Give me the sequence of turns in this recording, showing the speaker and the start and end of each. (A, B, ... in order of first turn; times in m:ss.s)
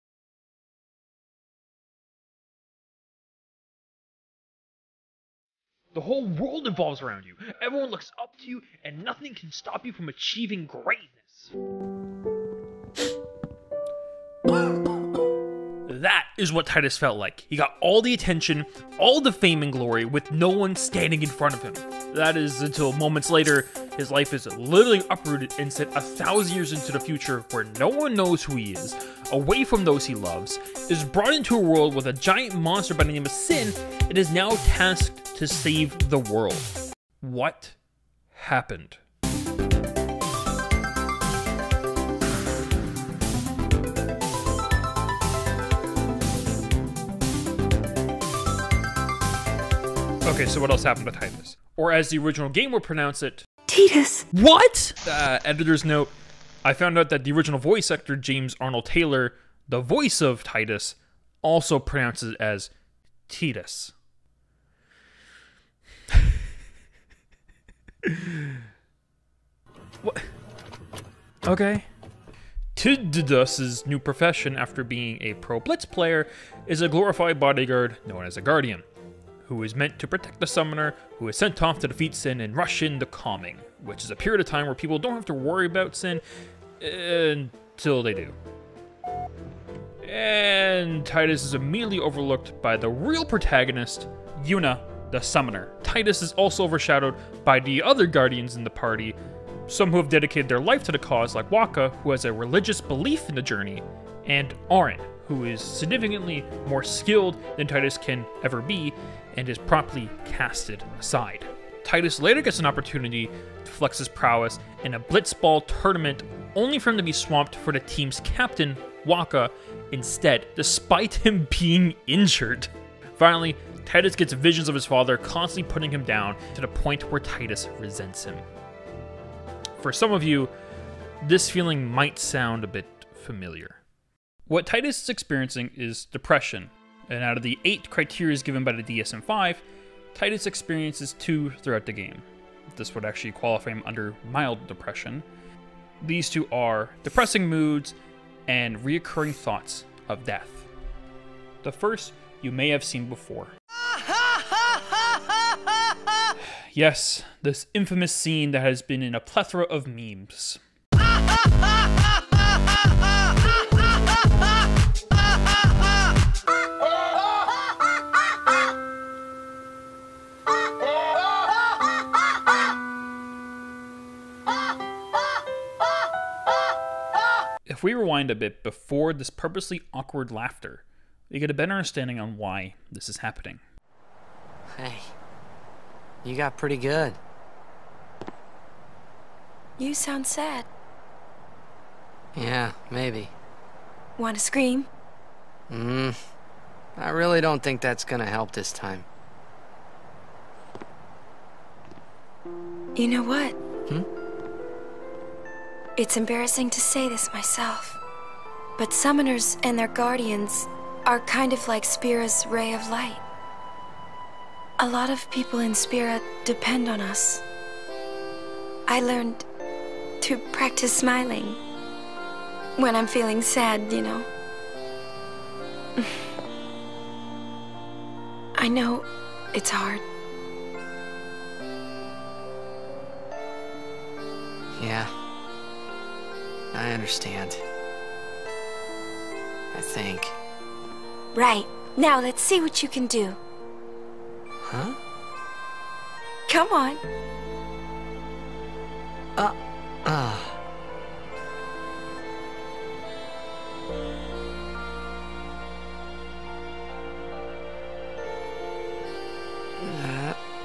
0:05.9-0:11.6 A
0:15.9-0:37.8 A
0:38.3-0:39.0 A
0:50.2-0:53.5 A
0:53.7-0:54.2 B
0:54.3-0:56.1 A
0:56.6-1:02.7 A
1:03.3-1:03.9 A
1:08.0-1:08.6 A
1:10.0-1:10.3 A
1:11.4-1:11.9 A
1:12.8-1:18.8 A
1:19.4-1:26.2 A
1:26.8-1:28.4 A
1:30.0-2:08.4 A
2:09.8-2:10.5 A
2:11.2-2:13.8 A
2:14.5-2:19.6 A
2:20.1-2:25.3 A
2:26.0-2:28.0 A
2:28.5-2:30.7 A
2:31.6-2:33.5 A
2:36.4-2:40.6 A
2:57.7-3:03.6 A
3:04.8-3:05.1 C
3:06.2-3:07.2 C
3:09.8-3:10.7 B
3:12.4-3:13.3 C
3:14.2-3:14.9 B
3:15.7-3:16.2 C
3:17.0-3:19.1 C
3:23.0-3:23.6 B
3:26.0-3:28.0 B
3:28.8-3:33.2 B
3:34.8-3:37.4 B
3:38.9-3:39.4 B
3:40.2-3:41.6 B
3:42.8-3:44.3 B
3:48.6-3:50.0 B
3:54.8-3:55.1 C
3:56.7-3:57.6 C
3:59.7-4:00.3 C
4:01.3-4:03.4 B
4:04.7-4:05.0 C
4:06.5-4:07.0 B
4:09.4-4:10.6 C
4:19.8-4:20.4 C